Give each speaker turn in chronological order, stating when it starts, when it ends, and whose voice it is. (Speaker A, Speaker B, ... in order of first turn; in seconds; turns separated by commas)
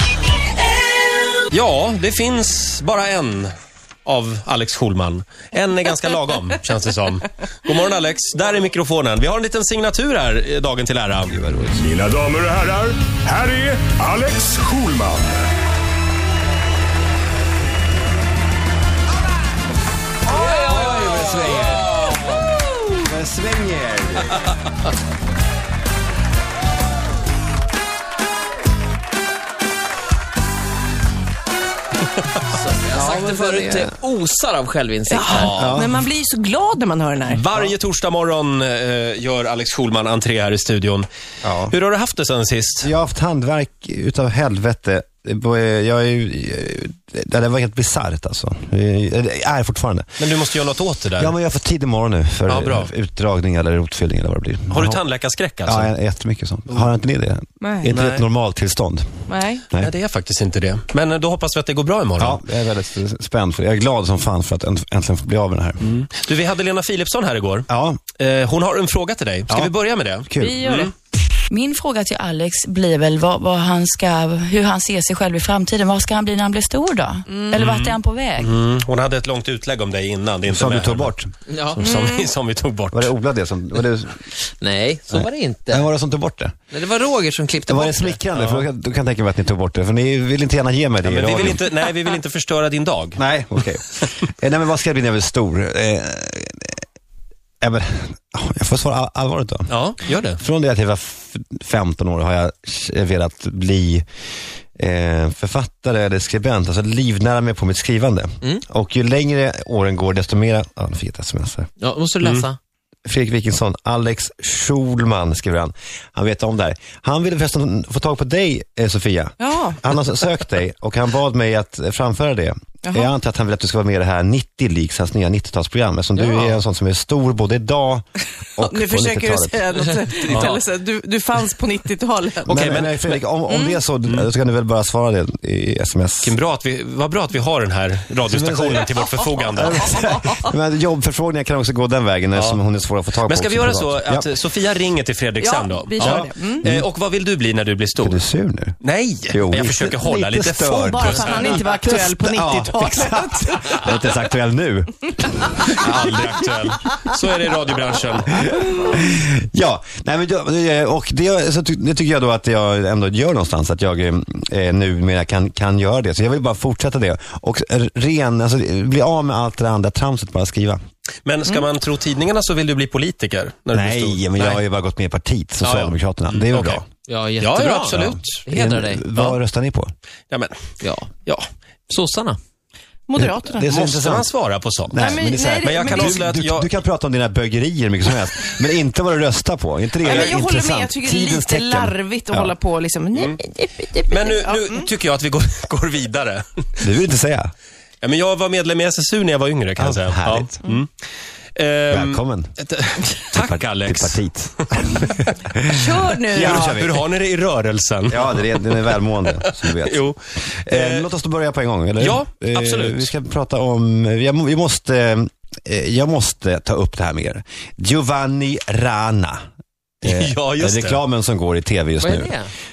Speaker A: 1.5-3.5, Speaker A: 4.0-11.3, Speaker B: 11.3-11.9, Speaker C: 11.9-15.3, Speaker B: 20.4-24.5, Speaker D: 20.9-21.6, Speaker D: 32.5-35.5, Speaker E: 35.1-37.5, Speaker A: 35.3-35.8, Speaker B: 35.4-36.0, Speaker A: 37.3-41.1, Speaker B: 41.4-41.7, Speaker A: 41.7-42.9, Speaker B: 42.8-50.2, Speaker A: 50.2-51.3, Speaker B: 51.2-55.0, Speaker A: 52.5-52.9, Speaker A: 54.7-55.9, Speaker B: 55.6-59.9, Speaker E: 57.6-57.9, Speaker A: 57.9-58.2, Speaker E: 59.3-59.6, Speaker A: 59.8-62.4, Speaker B: 62.2-65.9, Speaker A: 65.8-67.7, Speaker B: 67.7-68.0, Speaker A: 68.2-70.9, Speaker B: 70.2-70.7, Speaker E: 70.6-70.9, Speaker F: 71.5-78.5, Speaker A: 77.6-81.1, Speaker B: 80.5-81.3, Speaker D: 81.5-81.8, Speaker A: 81.8-83.1, Speaker B: 82.9-84.2, Speaker D: 84.6-85.9, Speaker B: 85.1-86.5, Speaker D: 86.7-88.2, Speaker B: 87.7-91.6, Speaker A: 88.3-88.6, Speaker A: 91.0-93.2, Speaker B: 93.2-96.8, Speaker B: 97.6-99.7, Speaker A: 99.7-100.4, Speaker B: 100.4-104.0, Speaker B: 104.8-111.7, Speaker D: 111.8-112.6, Speaker B: 113.0-128.1, Speaker E: 119.4-119.8, Speaker E: 122.8-123.1, Speaker A: 126.2-126.6, Speaker B: 128.6-129.7, Speaker E: 128.6-132.5, Speaker A: 130.3-130.6, Speaker B: 132.5-136.4, Speaker A: 132.5-133.2, Speaker E: 133.5-133.8, Speaker A: 136.2-139.8, Speaker B: 138.2-144.3, Speaker E: 139.9-140.3, Speaker A: 142.3-142.6, Speaker A: 143.2-148.2, Speaker E: 145.4-146.6, Speaker B: 146.0-146.9, Speaker B: 148.0-148.8, Speaker A: 148.8-151.6, Speaker B: 149.3-156.3, Speaker E: 150.7-153.8, Speaker A: 155.7-158.5, Speaker B: 158.4-170.8, Speaker A: 171.2-174.6, Speaker B: 173.7-176.8, Speaker A: 175.7-176.8, Speaker D: 177.1-179.4, Speaker A: 177.4-178.4, Speaker B: 178.0-179.9, Speaker A: 180.3-180.6, Speaker D: 180.8-181.1, Speaker D: 181.9-182.4, Speaker E: 183.1-183.7, Speaker B: 183.1-184.3, Speaker A: 183.7-185.0, Speaker B: 184.9-192.5, Speaker E: 185.0-186.1, Speaker A: 185.6-186.7, Speaker A: 190.0-190.4, Speaker E: 190.1-194.8, Speaker A: 193.1-193.4, Speaker A: 194.1-196.4, Speaker B: 196.8-197.5, Speaker A: 198.0-200.9, Speaker B: 199.8-200.6, Speaker A: 201.6-204.2, Speaker B: 201.9-202.6, Speaker B: 203.3-207.0, Speaker E: 205.7-206.6, Speaker A: 206.3-211.0, Speaker B: 208.1-210.0, Speaker B: 210.6-219.4, Speaker A: 212.0-213.1, Speaker B: 220.0-222.4, Speaker A: 220.0-221.0, Speaker D: 222.0-222.5